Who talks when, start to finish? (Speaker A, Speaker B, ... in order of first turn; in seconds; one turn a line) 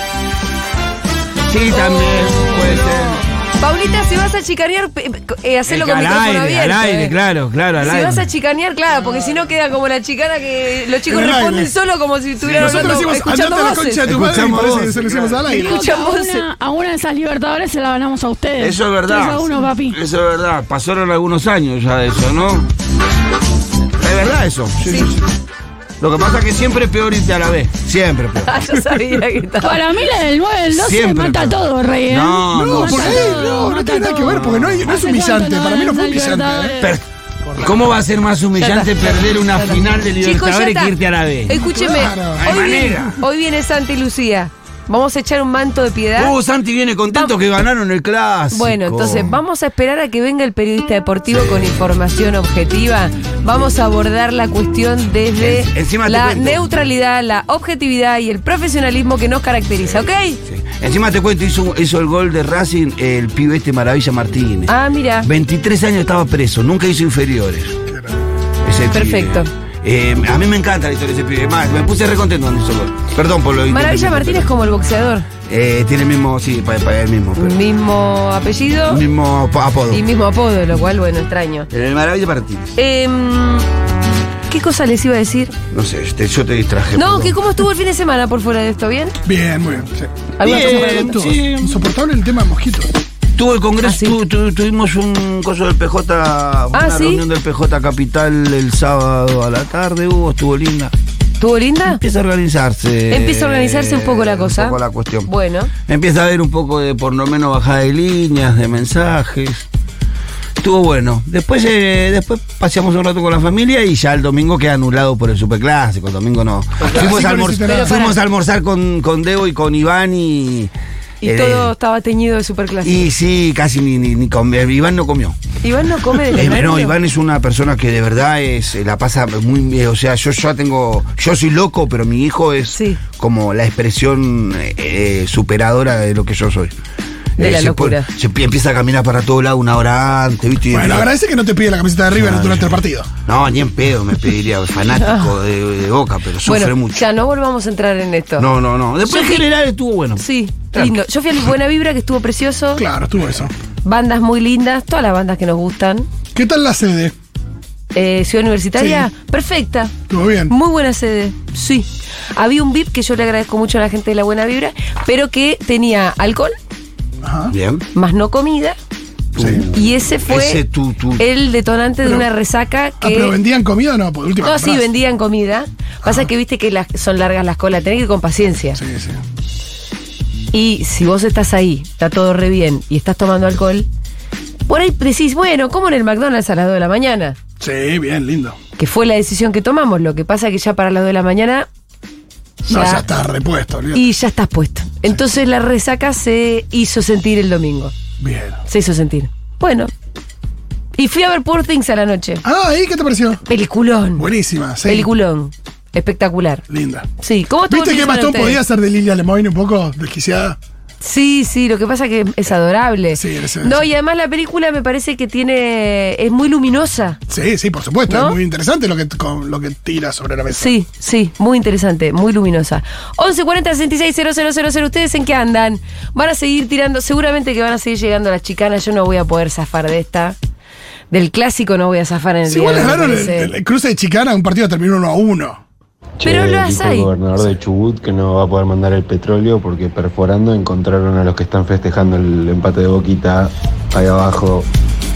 Speaker A: 1.5-3.2
Speaker B: 1.7-7.1
Speaker A: 5.7-8.2
Speaker B: 7.8-14.1
Speaker C: 11.1-11.8
Speaker A: 12.4-13.0
Speaker C: 12.5-15.8
Speaker A: 14.0-15.4
Speaker B: 15.4-16.4
Speaker D: 15.5-20.0
Speaker A: 18.6-22.7
Speaker A: 24.0-25.2
Speaker B: 24.8-25.1
Speaker A: 26.0-28.6
Speaker B: 28.4-29.8
Speaker D: 29.6-36.9
Speaker A: 30.7-33.4
Speaker C: 32.5-36.8
Speaker A: 34.2-35.0
Speaker C: 37.4-37.8
Speaker A: 37.6-41.6
Speaker B: 38.6-40.9
Speaker B: 41.5-46.3
Speaker C: 41.6-43.1
Speaker A: 42.4-43.2
Speaker A: 46.2-49.4
Speaker B: 48.5-60.4
Speaker A: 55.4-56.7
Speaker A: 59.8-67.8
Speaker B: 64.7-65.3
Speaker C: 67.9-68.2
Speaker A: 68.6-74.5
Speaker B: 68.9-69.5
Speaker B: 73.7-75.3
Speaker A: 75.5-77.6
Speaker B: 77.4-79.0
Speaker A: 78.9-80.0
Speaker B: 79.9-81.7
Speaker A: 81.7-82.8
Speaker B: 82.8-83.7
Speaker B: 84.5-85.5
Speaker A: 85.7-87.4
Speaker B: 86.9-89.2
Speaker C: 89.2-92.9
Speaker B: 90.4-91.2
Speaker A: 90.4-91.8
Speaker A: 93.4-100.9
Speaker B: 93.8-94.2
Speaker B: 96.7-97.2
Speaker B: 101.4-102.0
Speaker A: 101.9-105.3
Speaker B: 103.1-105.7
Speaker A: 105.9-109.7
Speaker A: 110.6-120.7
Speaker B: 116.8-118.2
Speaker C: 116.9-118.0
Speaker B: 121.2-123.1
Speaker A: 121.2-121.7
Speaker A: 122.8-125.4
Speaker B: 125.6-126.9
Speaker A: 126.3-136.7
Speaker B: 132.7-133.0
Speaker A: 137.4-141.1
Speaker B: 137.4-138.1
Speaker C: 140.7-143.1
Speaker A: 142.1-147.1
Speaker B: 145.0-145.3
Speaker B: 146.4-148.5
Speaker A: 148.4-151.0
Speaker B: 149.0-149.4
Speaker B: 150.2-152.8
Speaker C: 152.8-153.5
Speaker B: 153.8-156.1
Speaker C: 156.3-157.1
Speaker B: 157.9-159.9
Speaker C: 158.8-159.1
Speaker C: 160.1-160.5
Speaker B: 160.5-166.6
Speaker C: 167.2-167.5
Speaker A: 167.5-167.8
Speaker B: 167.9-168.8
Speaker A: 169.3-171.2
Speaker C: 169.4-169.6
Speaker B: 169.7-170.6
Speaker B: 171.2-173.4
Speaker C: 173.0-174.8
Speaker B: 174.4-178.8
Speaker C: 176.0-176.3
Speaker C: 178.8-179.2
Speaker B: 180.5-183.9
Speaker B: 184.7-187.4
Speaker C: 187.6-188.6
Speaker B: 188.8-191.7
Speaker B: 192.6-193.1
Speaker C: 192.7-194.1
Speaker B: 193.9-197.9
Speaker C: 198.2-198.6
Speaker B: 198.7-199.9
Speaker B: 200.9-202.4
Speaker C: 202.4-203.4
Speaker B: 203.4-204.2
Speaker C: 204.2-205.1
Speaker B: 204.8-206.6
Speaker C: 206.7-207.1
Speaker B: 207.2-208.6
Speaker C: 207.7-210.6
Speaker B: 211.0-217.2
Speaker C: 213.1-213.9
Speaker C: 217.3-220.7
Speaker B: 218.1-218.4
Speaker B: 220.5-230.4
Speaker B: 231.1-233.5
Speaker C: 232.5-235.6
Speaker E: 236.2-244.7
Speaker B: 236.2-237.1